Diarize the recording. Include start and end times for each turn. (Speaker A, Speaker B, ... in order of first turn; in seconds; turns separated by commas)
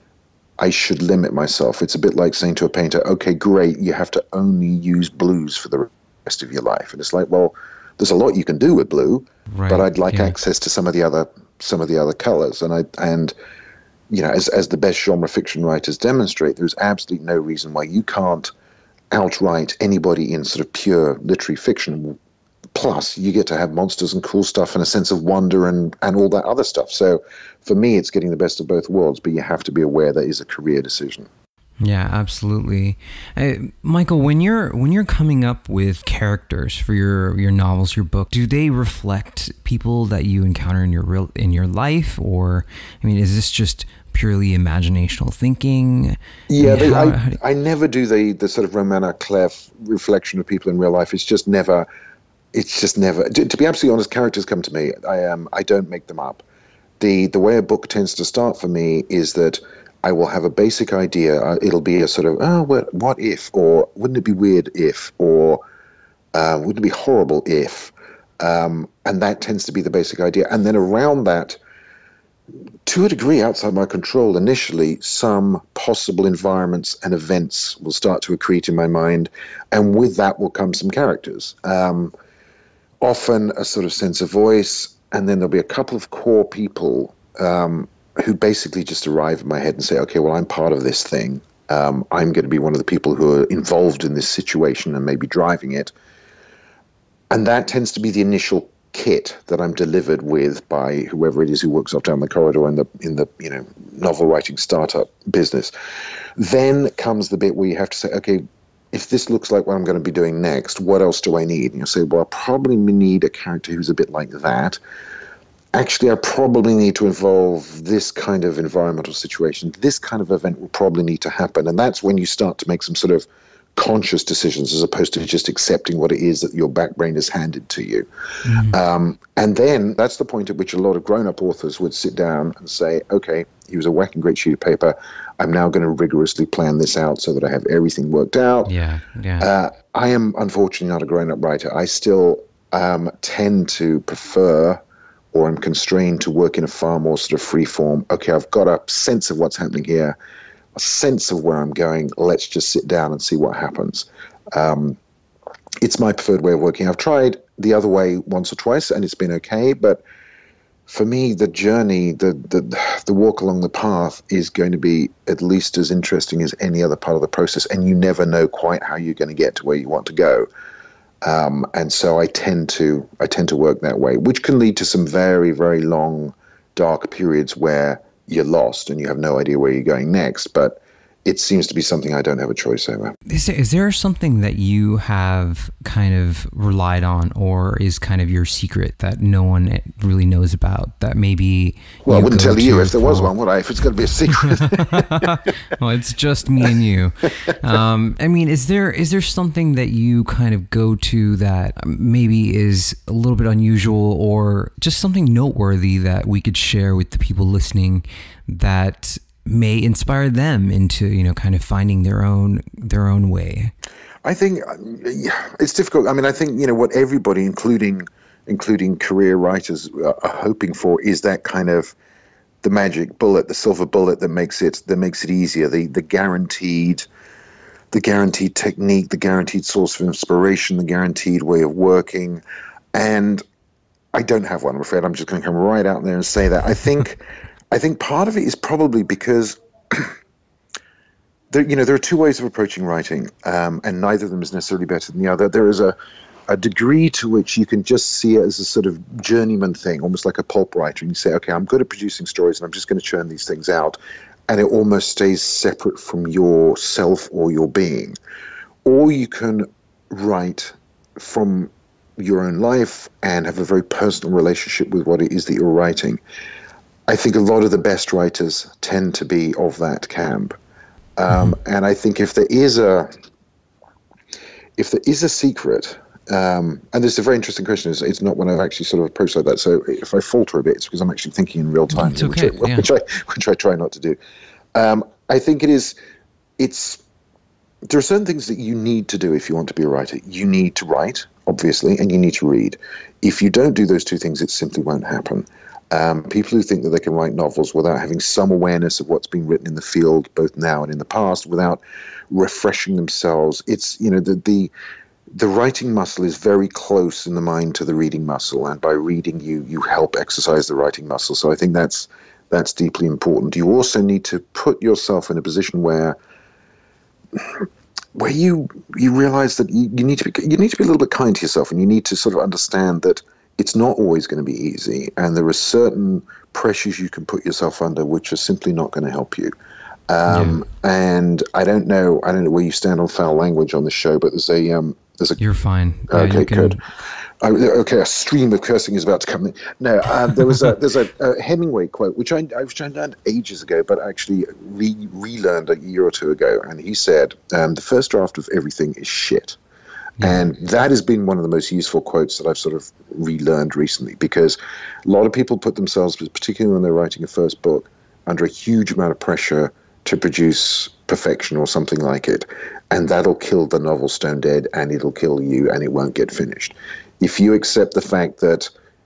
Speaker A: 0.6-13.3, Speaker B: 9.5-10.3, Speaker A: 14.1-18.5, Speaker A: 19.1-22.2, Speaker A: 22.7-31.3, Speaker B: 31.8-47.4, Speaker A: 46.5-51.9, Speaker A: 52.5-56.4, Speaker A: 57.0-65.6, Speaker A: 66.3-71.6, Speaker A: 72.8-82.1, Speaker A: 83.0-95.9, Speaker A: 97.3-105.7, Speaker A: 106.3-114.8, Speaker A: 115.7-128.1, Speaker B: 128.4-128.8, Speaker A: 128.6-138.7, Speaker B: 138.7-139.5, Speaker A: 139.4-144.8, Speaker A: 145.3-150.2, Speaker A: 150.7-155.0, Speaker A: 155.8-160.0, Speaker A: 160.9-170.5, Speaker A: 171.2-183.1, Speaker B: 183.3-193.3, Speaker A: 192.0-195.2, Speaker B: 194.3-213.7, Speaker A: 214.2-221.9, Speaker A: 222.6-227.1, Speaker A: 227.9-232.4, Speaker A: 232.9-233.4, Speaker A: 234.1-240.1, Speaker A: 241.5-245.9, Speaker A: 246.5-258.1, Speaker A: 258.8-266.2, Speaker A: 267.1-270.6, Speaker A: 271.2-273.1, Speaker A: 274.8-284.2, Speaker B: 281.9-282.9, Speaker A: 284.7-285.9, Speaker A: 286.6-287.0, Speaker A: 287.9-304.7, Speaker A: 305.3-316.2, Speaker A: 317.3-329.5, Speaker A: 330.1-335.4, Speaker B: 330.3-330.6, Speaker B: 335.4-336.8, Speaker A: 336.1-336.8, Speaker A: 337.4-349.6, Speaker A: 350.2-368.7